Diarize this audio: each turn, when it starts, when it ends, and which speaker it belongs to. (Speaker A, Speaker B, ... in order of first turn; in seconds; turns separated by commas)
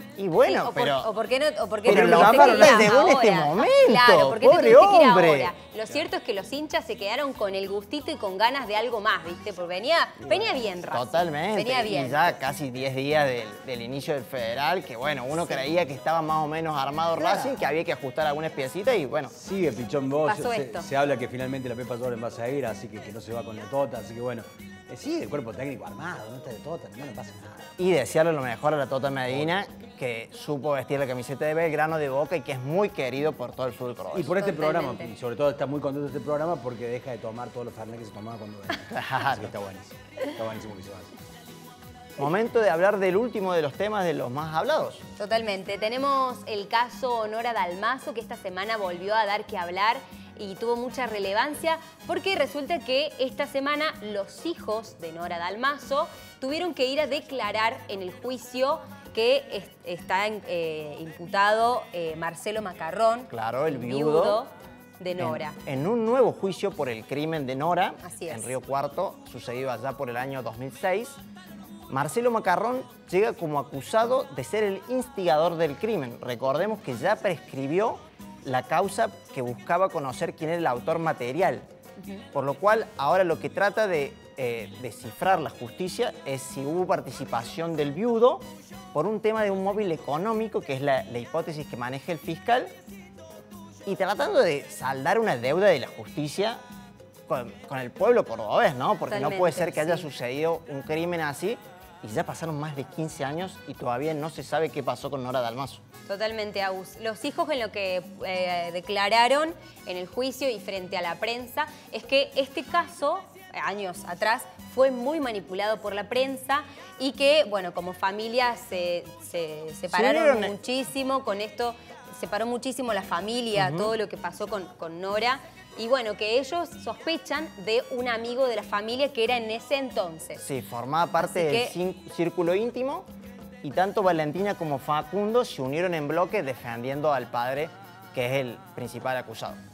Speaker A: 0.2-1.1, Speaker B: 0.5-12.4, Speaker A: 1.8-5.5, Speaker C: 1.9-3.0, Speaker A: 10.9-19.3, Speaker C: 17.2-17.6, Speaker C: 19.3-27.7, Speaker B: 20.3-20.9, Speaker A: 27.8-34.4, Speaker C: 34.1-41.1, Speaker B: 34.4-35.1, Speaker A: 38.9-39.5, Speaker A: 42.2-45.0, Speaker B: 45.2-65.6, Speaker A: 63.3-64.4, Speaker A: 65.2-71.2, Speaker B: 68.0-68.5, Speaker A: 71.9-81.7, Speaker A: 82.3-92.7, Speaker A: 93.8-96.6, Speaker A: 97.3-105.8, Speaker B: 99.1-100.1, Speaker B: 106.1-130.4, Speaker A: 119.9-120.6, Speaker A: 123.5-124.0, Speaker A: 130.4-133.1, Speaker B: 131.2-131.8, Speaker A: 133.6-139.6